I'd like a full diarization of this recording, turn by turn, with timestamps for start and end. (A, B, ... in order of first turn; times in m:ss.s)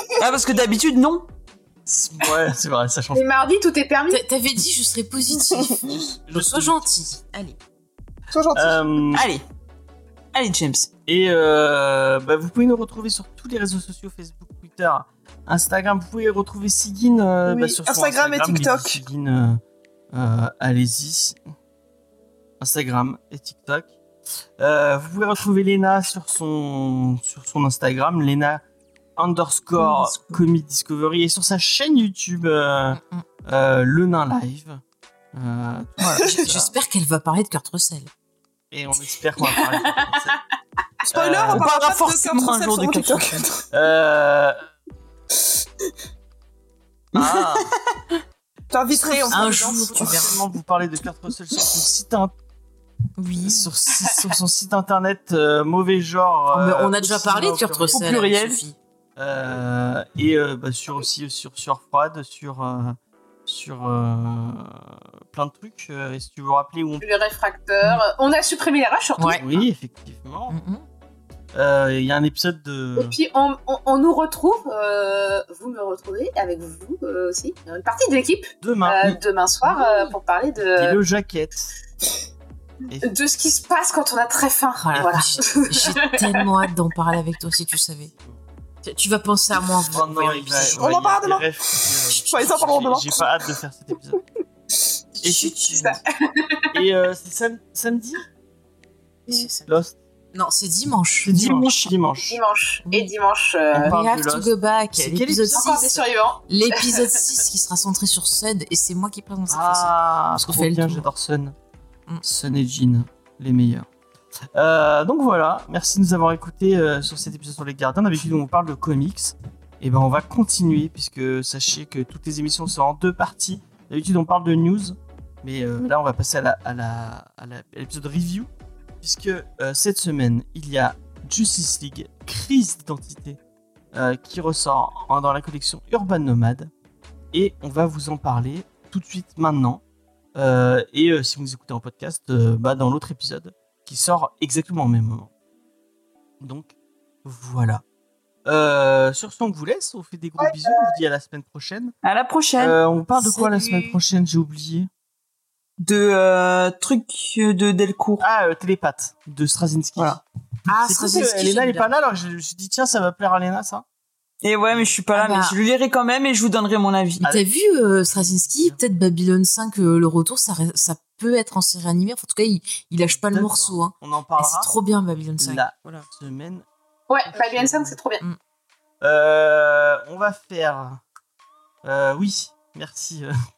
0:00.2-0:01.3 A
0:01.9-0:03.2 B
0:03.1-0:04.2 C
0:04.1-0:07.6 D
0:05.8-0:06.9 B
0:08.3-0:09.2 E
0:08.5-0:09.3 B
0:09.1-0:09.4 A
0:10.3-0:10.9 A
0:11.1-0:19.6 B
0:17.5-0:19.0 E
0:20.1-0:21.4 B
0:22.6-0:24.0 B
0:24.6-0:28.6 B
0:29.2-0:34.8 B
0:29.8-0:30.4 A
0:32.9-0:33.2 D
0:35.3-0:36.7 B
0:36.0-0:38.1 D
0:38.7-0:40.4 B
0:39.4-0:40.2 C
0:41.0-0:43.7 E
0:41.1-0:41.7 B
0:41.2-0:43.5 A
0:43.7-0:44.6 B
0:47.1-0:47.7 B
0:47.2-0:48.0 A
0:48.7-0:50.4 E
0:49.1-0:52.3 B
0:49.3-0:50.4 D
0:53.2-0:54.4 D
0:53.4-0:58.3 B
0:56.5-0:58.8 D
0:57.9-0:58.6 A
0:59.2-1:07.1 B
1:07.0-1:09.4 C
1:09.2-1:09.4 D
1:09.2-1:10.6 B
1:10.5-1:10.8 D
1:11.5-1:13.2 B
1:13.0-1:21.0 C
1:18.6-1:19.2 B
1:19.6-1:20.2 D
1:20.8-1:21.7 B
1:22.9-1:23.1 B
1:23.0-1:26.6 C
1:24.8-1:28.1 D
1:28.8-1:30.8 D
1:29.9-1:34.2 B
1:30.8-1:31.5 E
1:32.1-1:32.7 D
1:32.2-1:33.2 E
1:35.2-1:36.0 D
1:35.2-1:36.0 B
1:35.8-1:36.7 C
1:36.7-1:38.2 B
1:39.3-1:39.8 D
1:39.7-1:40.0 B
1:40.3-1:41.4 D
1:41.2-1:42.4 B
1:41.3-1:41.9 A
1:42.3-1:44.0 C
1:42.9-1:43.1 D
1:43.7-1:45.7 B
1:43.8-1:51.1 D
1:45.5-1:47.2 C
1:49.5-1:51.5 B
1:52.2-1:53.9 B
1:54.6-2:08.5 B
2:09.0-2:13.4 B
2:13.9-2:16.7 B
2:17.3-2:19.8 B
2:20.4-2:25.3 B
2:26.4-2:26.7 B
2:27.2-2:27.8 B
2:28.5-2:31.9 B
2:30.4-2:31.0 E
2:32.0-2:32.8 A
2:32.6-2:34.9 B
2:33.2-2:34.0 D
2:35.8-2:38.2 A
2:38.2-2:40.2 B
2:40.7-2:41.9 D
2:40.8-2:43.8 B
2:44.4-2:47.2 A
2:44.7-2:45.0 B
2:45.1-2:45.6 D
2:47.2-2:47.4 B
2:47.2-2:56.1 D
2:48.1-2:48.8 B
2:53.3-2:54.7 B
2:55.4-2:56.7 B
2:57.1-2:58.2 C
2:57.3-2:58.0 B
2:59.0-3:01.0 B
3:01.8-3:03.3 B